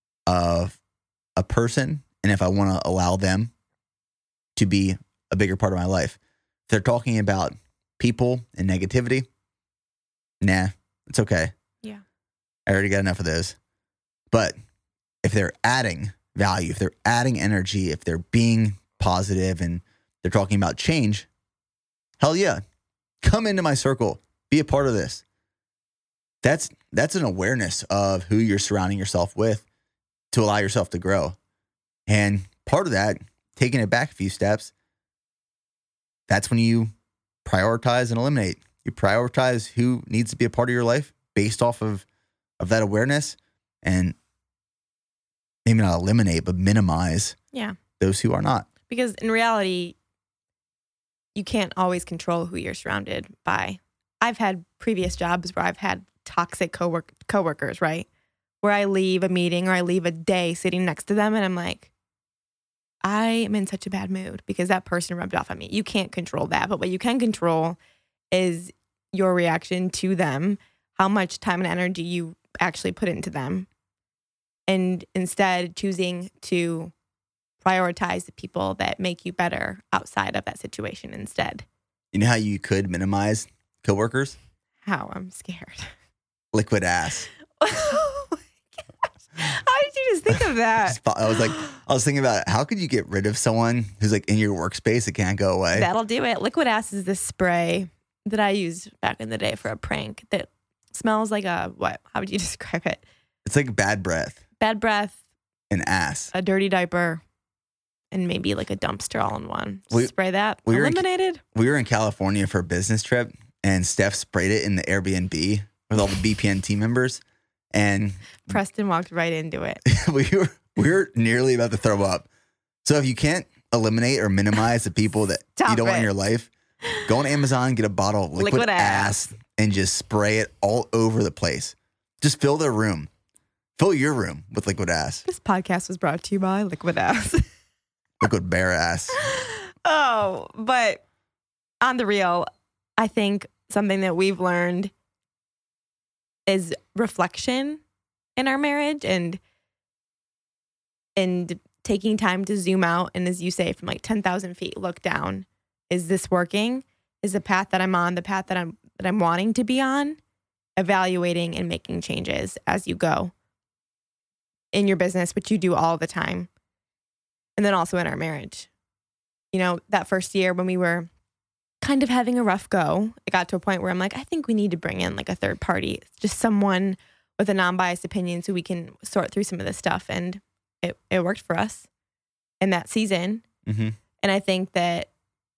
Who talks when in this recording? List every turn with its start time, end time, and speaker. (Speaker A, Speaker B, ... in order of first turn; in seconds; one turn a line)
Speaker A: 0.3-0.8
Speaker A: 1.4-3.5
Speaker A: 4.6-6.2
Speaker A: 6.7-9.3
Speaker A: 10.4-11.6
Speaker A: 12.7-13.6
Speaker A: 15.2-21.3
Speaker A: 22.2-22.6
Speaker A: 23.2-25.2
Speaker A: 26.4-29.6
Speaker A: 30.3-31.4
Speaker A: 32.1-34.7
Speaker A: 36.3-36.9
Speaker A: 37.5-42.0
Speaker A: 42.6-44.1
Speaker A: 45.7-47.4
Speaker A: 48.0-48.7
Speaker B: 48.9-50.0
Speaker B: 51.4-58.1
Speaker B: 58.6-61.9
Speaker B: 63.0-67.8
Speaker B: 68.3-73.7
Speaker B: 74.7-76.9
Speaker B: 77.6-81.7
Speaker A: 82.1-84.4
Speaker B: 84.8-85.9
Speaker A: 86.5-87.3
Speaker B: 87.6-91.6
Speaker A: 90.3-95.9
Speaker B: 95.7-103.0
Speaker A: 103.5-104.4
Speaker B: 104.6-105.2
Speaker A: 105.7-106.3
Speaker B: 106.3-107.2
Speaker B: 108.1-111.4
Speaker A: 110.7-117.2
Speaker A: 117.7-118.6
Speaker B: 118.5-119.8
Speaker A: 119.8-122.3
Speaker A: 122.8-133.1
Speaker B: 125.6-126.1
Speaker B: 128.4-129.2
Speaker A: 133.8-135.2
Speaker B: 135.3-137.4
Speaker A: 138.2-139.2
Speaker B: 139.2-141.0
Speaker B: 141.8-142.5
Speaker B: 143.0-144.9
Speaker B: 146.5-147.8
Speaker B: 148.4-149.4
Speaker B: 151.2-160.2
Speaker B: 160.8-163.3
Speaker B: 164.7-166.5
Speaker B: 167.6-168.7
Speaker B: 169.5-171.1
Speaker B: 171.8-181.9
Speaker B: 182.6-183.4
Speaker A: 183.7-184.0
Speaker B: 184.2-185.1